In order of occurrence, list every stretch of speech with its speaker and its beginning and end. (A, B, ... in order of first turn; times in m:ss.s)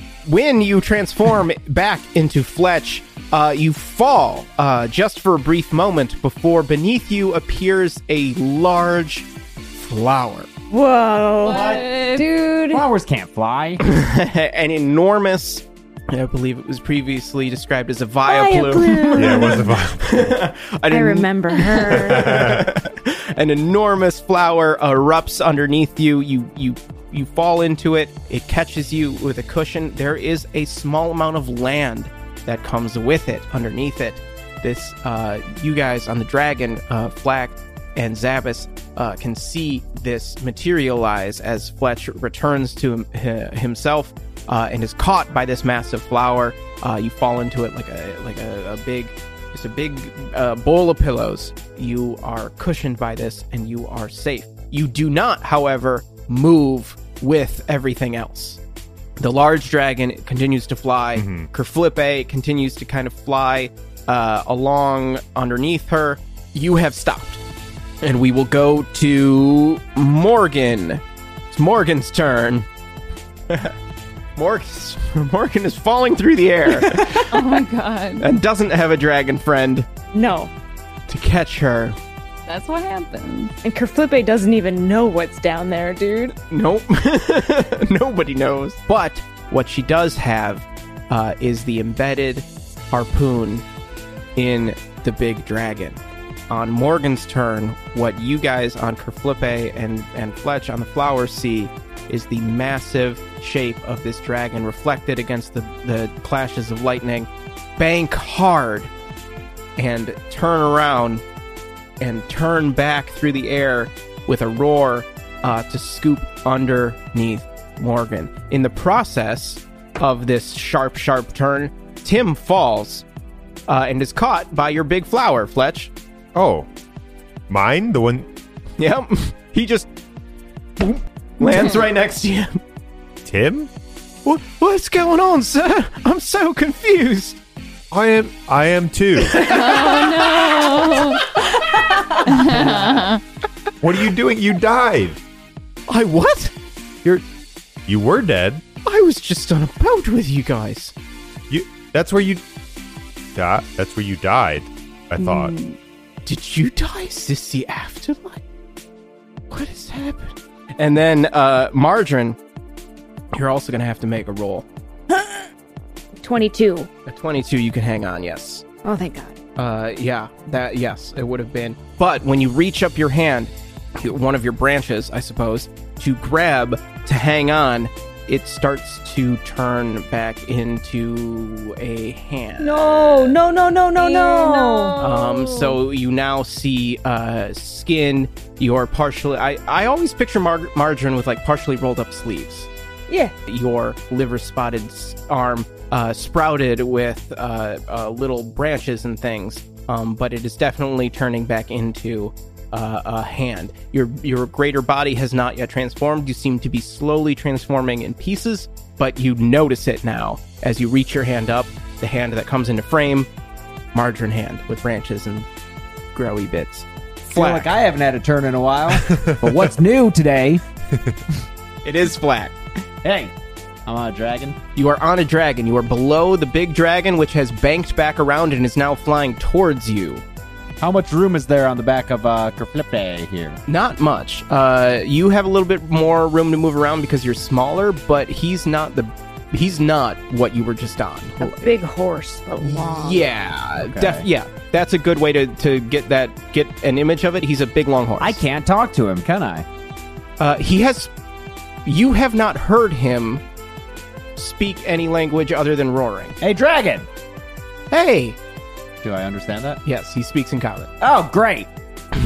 0:00.2-0:10.5 A
0:10.7-0:12.8 B
0:11.4-0:12.3 C
0:11.5-0:11.8 D
0:12.7-0:13.8 D
0:13.8-0:58.6 A
0:18.3-0:19.8 B
0:19.2-0:20.4 E
0:20.9-0:22.4 B
0:22.0-0:22.7 E
0:59.2-1:07.4 A
1:01.2-1:01.5 E
1:08.0-1:12.7 A
1:13.5-1:13.7 A
1:14.4-1:17.3 A
1:17.3-1:18.3 C
1:18.2-1:19.9 A
1:20.1-1:20.5 B
1:21.1-1:22.0 A
1:22.5-1:23.5 C
1:23.6-1:26.4 B
1:26.5-1:33.6 A
1:34.4-1:36.0 A
1:36.5-1:48.9 A
1:49.8-1:51.2 A
1:52.0-2:03.0 A
2:03.7-2:05.9 A
2:06.4-2:06.7 E
2:07.5-2:08.3 E
2:08.8-2:09.9 A
2:10.8-2:12.6 A
2:13.2-2:13.7 E
2:14.2-2:17.4 A
2:17.9-2:19.4 E
2:19.3-2:19.8 A
2:19.4-2:21.3 C
2:22.2-2:23.2 C
2:23.8-2:25.2 E
2:25.9-2:26.5 A
2:27.9-2:28.6 E
2:28.8-2:30.9 A
2:31.5-2:32.4 E
2:33.4-2:35.6 E
2:35.2-2:35.8 C
2:36.3-2:38.4 A
2:39.5-2:42.4 A
2:43.3-2:44.6 A
2:46.2-2:46.9 B
2:47.1-2:48.6 A
2:48.8-2:49.4 B
2:49.6-3:03.4 A
3:02.6-3:05.8 B
3:04.0-3:05.0 C
3:05.0-3:12.7 A
3:13.1-3:13.3 B
3:13.5-3:33.3 A
3:33.9-3:35.5 A
3:36.2-3:37.7 A
3:37.3-3:40.6 D
3:39.1-3:39.6 E
3:40.9-3:41.2 E
3:41.8-3:42.6 A
3:43.0-3:43.3 D
3:43.9-3:44.6 D
3:44.8-3:50.2 A
3:50.8-3:53.6 D
3:53.7-4:01.8 A
4:01.4-4:03.3 B
4:02.6-4:08.4 A
4:03.8-4:04.3 D
4:08.2-4:09.7 D
4:10.4-4:11.1 A
4:11.9-4:13.4 A
4:14.4-4:16.4 A
4:16.4-4:17.1 D
4:17.9-4:18.4 A
4:19.0-4:19.8 D
4:19.8-4:20.9 A
4:21.0-4:21.7 D